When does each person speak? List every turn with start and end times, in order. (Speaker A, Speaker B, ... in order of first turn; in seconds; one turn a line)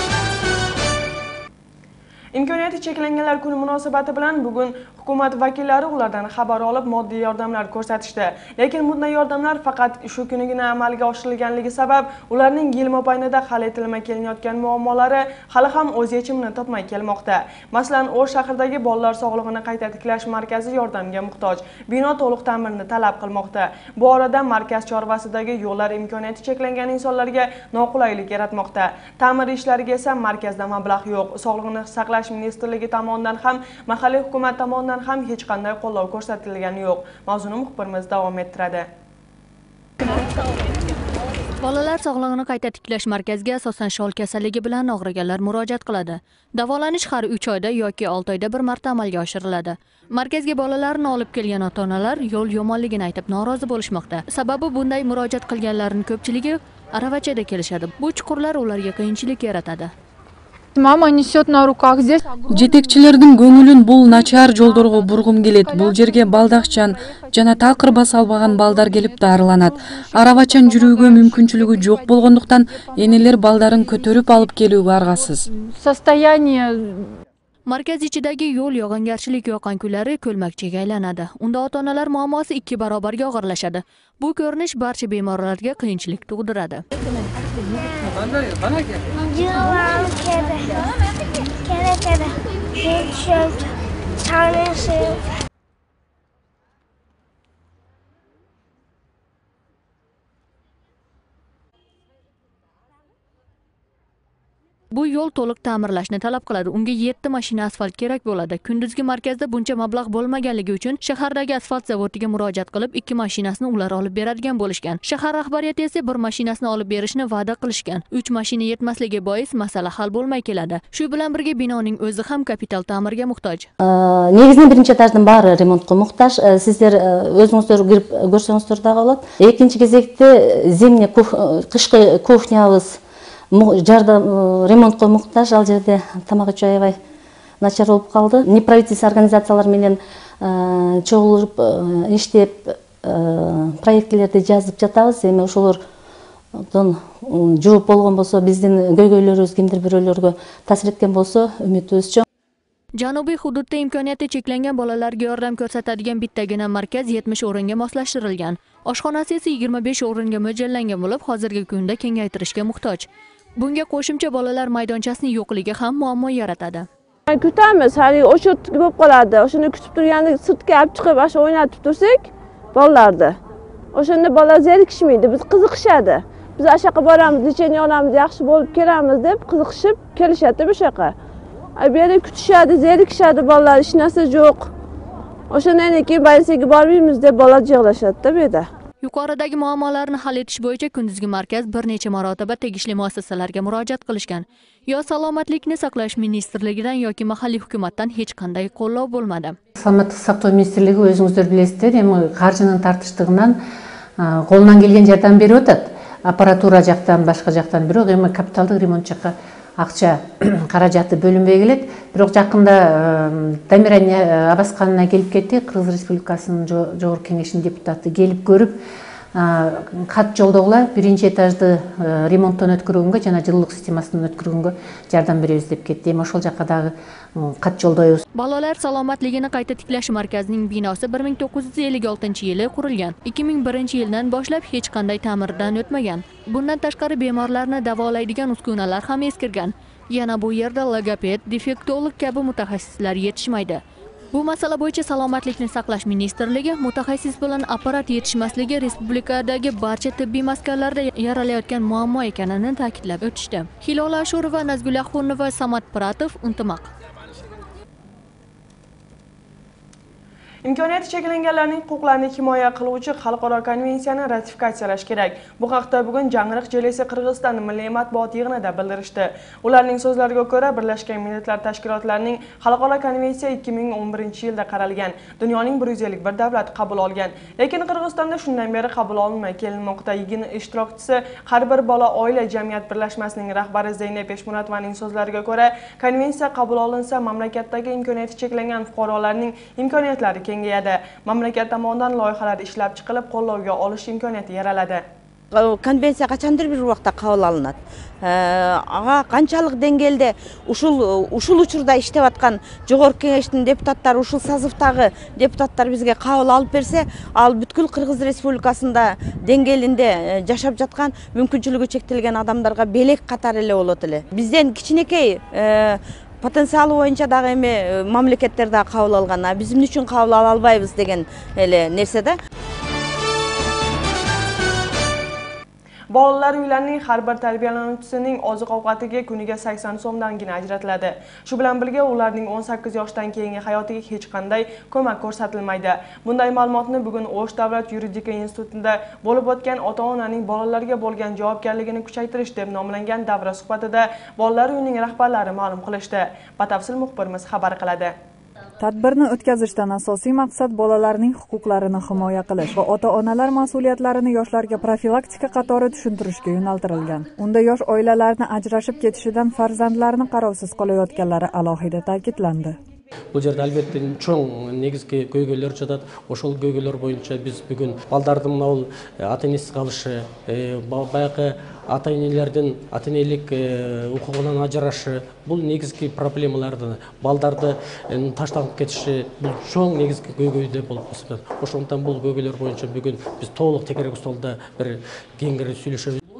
Speaker A: 2.3-38.9
Speaker B: 41.6-59.9
Speaker C: 60.8-62.3
Speaker D: 62.4-75.5
Speaker C: 75.6-77.0
Speaker B: 77.7-86.8
Speaker E: 87.7-88.1
Speaker E: 89.1-90.9
Speaker E: 91.6-93.7
Speaker E: 94.2-95.2
Speaker B: 104.9-123.7
Speaker F: 123.8-133.0
Speaker F: 133.5-137.0
Speaker F: 137.6-145.8
Speaker F: 146.6-152.2
Speaker B: 152.9-166.9
Speaker G: 167.3-173.4
Speaker G: 173.9-181.1
Speaker G: 181.8-184.7
Speaker G: 185.5-188.7
Speaker B: 189.0-199.6
Speaker H: 199.8-203.6
Speaker H: 204.2-218.8
Speaker H: 219.3-228.2
Speaker B: 228.3-256.9
Speaker A: 260.6-295.0
Speaker I: 295.5-322.3
Speaker A: 326.1-348.1
Speaker J: 348.8-362.8
Speaker K: 363.3-386.2